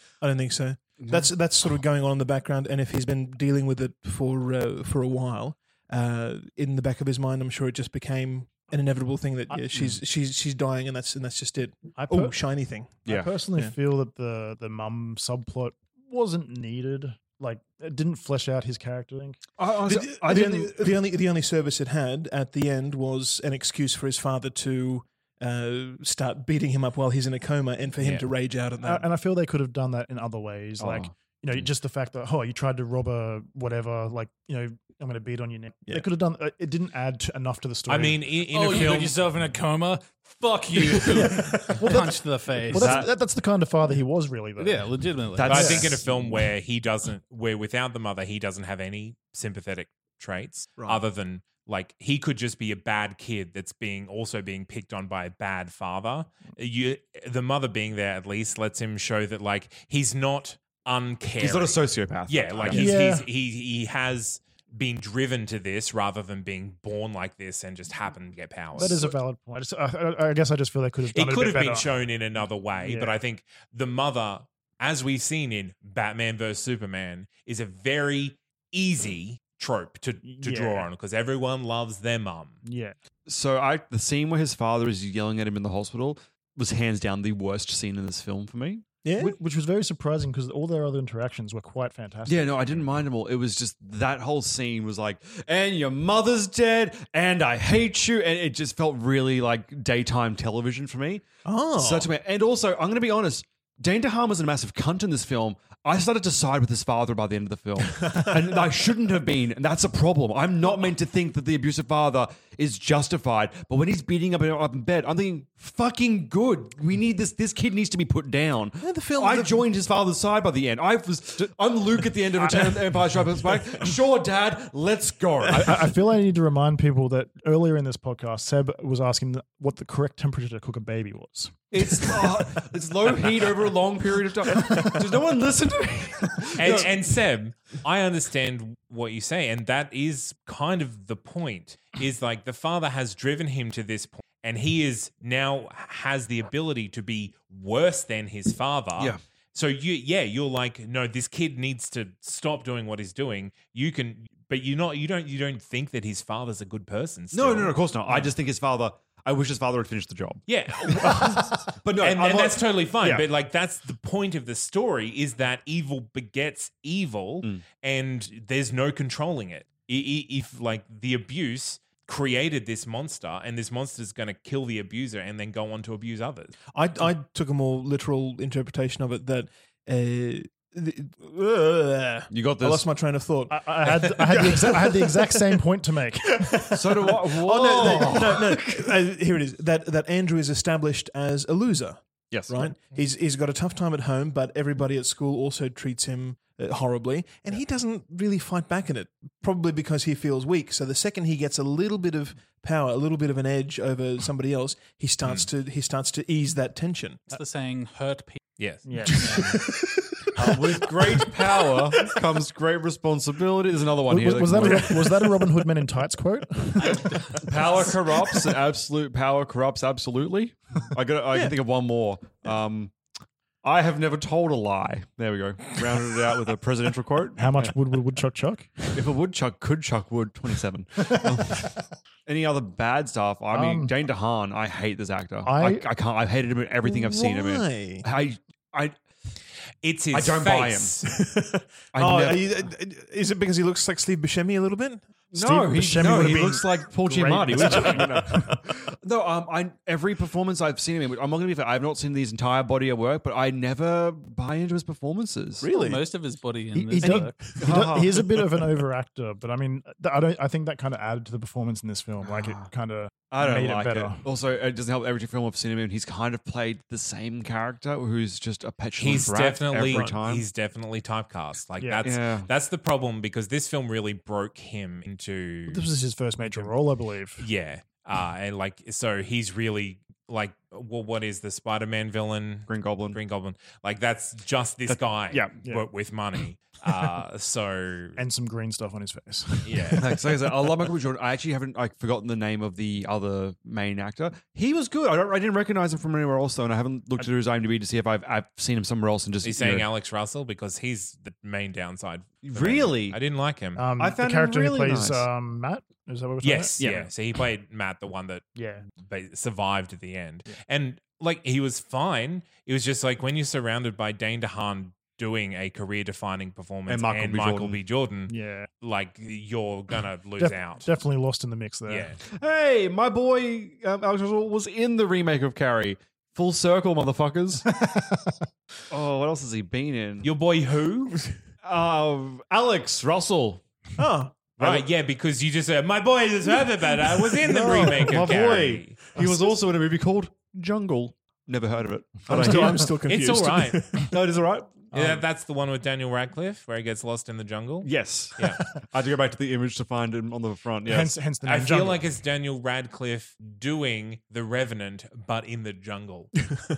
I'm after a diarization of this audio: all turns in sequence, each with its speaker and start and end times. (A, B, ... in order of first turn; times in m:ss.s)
0:00.1-0:13.7 A
0:01.0-0:01.3 B
0:09.5-0:09.8 C
0:11.9-0:12.4 C
0:13.0-0:19.4 C
0:13.0-0:13.3 B
0:19.6-0:20.8 B
0:19.8-0:29.1 A
0:28.0-0:28.2 D
0:28.8-0:38.4 C
0:30.8-0:31.6 B
0:37.9-0:39.2 D
0:38.5-0:43.0 E
0:41.1-0:45.9 C
0:42.7-0:43.1 B
0:44.6-0:46.2 E
0:45.3-0:46.0 B
0:45.4-1:09.1 D
1:01.4-1:02.9 B
1:02.6-1:03.3 C
1:08.7-1:11.9 C
1:11.1-1:22.6 D
1:12.8-1:13.2 C
1:20.2-1:20.9 C
1:22.6-1:23.0 C
1:23.2-1:28.8 B
1:29.0-1:29.4 A
1:29.2-1:32.8 C
1:32.2-2:06.0 B
1:41.4-1:42.1 A
1:58.8-1:59.6 A
2:05.5-2:11.9 C
2:11.7-2:17.1 B
2:16.6-2:37.8 D
2:37.3-2:43.2 B
2:40.5-2:56.5 D
2:56.7-3:05.6 A
3:02.3-3:02.9 B
3:03.5-3:06.8 C
3:06.2-3:27.2 A
3:06.7-3:08.8 B
3:12.3-3:12.7 B
3:27.3-3:28.4 E
3:28.6-3:28.8 D
3:28.8-3:29.6 C
3:29.1-3:30.8 A
3:30.4-3:35.3 B
3:34.0-3:37.4 C
3:36.8-3:37.4 E
3:37.4-3:42.9 B
3:43.6-3:47.7 B
3:47.3-3:49.0 C
3:48.9-3:51.7 B
3:52.2-3:58.9 B
3:53.5-3:53.9 C
3:55.4-3:55.8 C
3:56.8-3:58.0 A
3:59.8-4:01.1 D
4:00.1-4:01.0 B
4:01.1-4:05.0 A
4:01.9-4:02.5 B
4:05.3-4:15.7 B
4:05.3-4:08.6 C
4:15.6-4:16.0 A
4:15.7-4:17.6 E
4:16.7-4:24.2 C
4:17.1-4:18.4 B
4:22.2-4:22.7 B
4:23.3-4:30.4 B
4:29.0-4:35.9 D
4:31.8-4:32.0 C
4:32.0-4:32.5 B
4:35.7-4:37.5 C
4:37.4-4:48.2 D
4:42.7-4:43.2 B
4:45.3-4:45.8 C
4:48.2-4:50.1 C
4:49.6-4:50.0 D
4:50.0-4:59.9 B
4:59.4-5:03.8 D
5:02.4-5:03.2 B
5:03.8-5:06.9 C
5:04.0-5:05.3 B
5:06.4-5:08.4 D
5:06.8-5:07.1 B
5:08.5-5:08.8 C
5:09.0-5:20.8 D
5:16.9-5:17.8 B
5:18.3-5:18.7 C
5:20.4-5:22.1 C
5:21.9-5:22.2 D
5:22.3-5:27.7 B
5:27.7-5:28.3 C
5:28.9-5:30.3 B
5:30.2-5:31.2 D
5:31.6-5:33.6 B
5:34.0-5:34.4 A
5:34.6-5:39.1 D
5:37.4-5:42.9 B
5:42.3-5:44.1 A
5:43.0-5:43.9 D
5:44.1-5:44.9 B
5:44.9-5:45.2 C
5:44.9-5:48.6 D
5:47.8-5:51.2 B
5:50.8-5:52.1 C
5:51.4-5:56.3 D